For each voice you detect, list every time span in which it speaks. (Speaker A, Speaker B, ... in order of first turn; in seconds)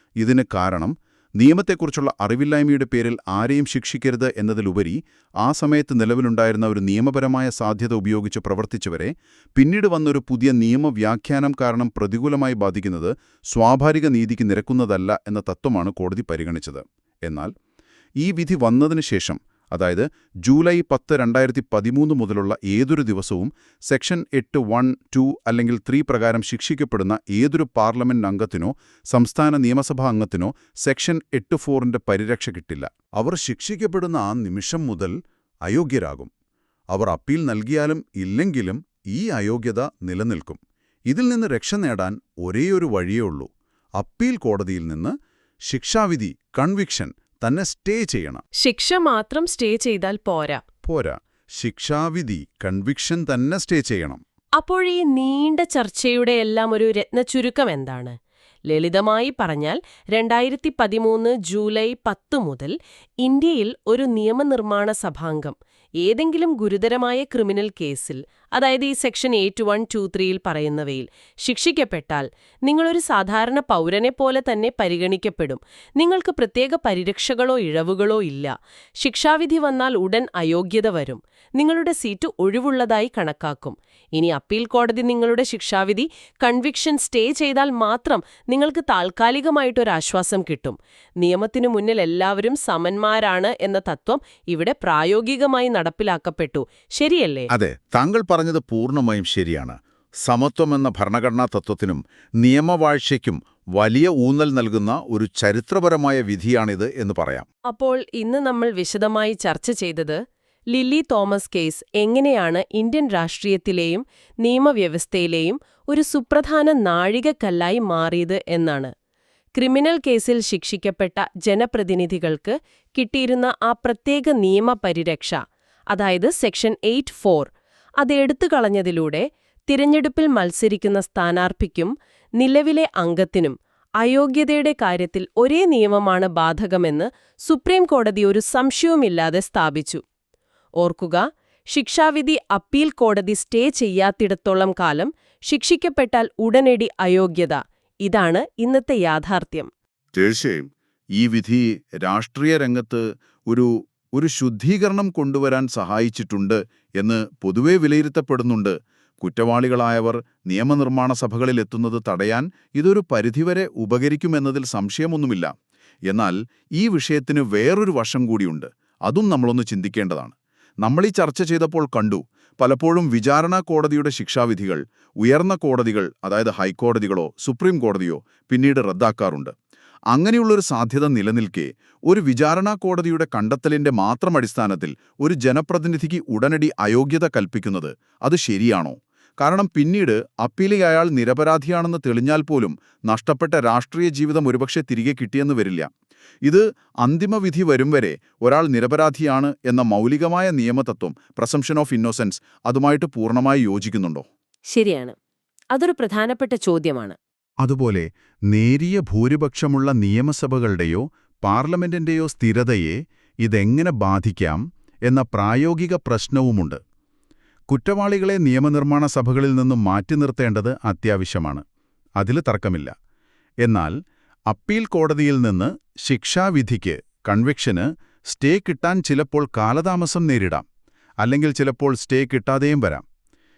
Speaker A: 0.2-17.5, 18.2-36.3, 36.9-45.1, 45.7-48.4, 50.8-54.2, 97.5-107.5, 150.1-165.5, 166.1-179.5, 180.1-195.9, 196.4-204.3, 207.6-216.8, 217.7-221.6, 222.2-222.9, 223.6-223.9, 224.5-230.7, 231.2-233.0
Speaker B: 48.6-50.6, 54.6-58.2, 58.7-97.5, 107.7-110.2, 110.7-118.9, 119.6-125.4, 125.9-127.5, 128.0-140.0, 140.8-149.7, 204.7-205.2, 205.7-207.2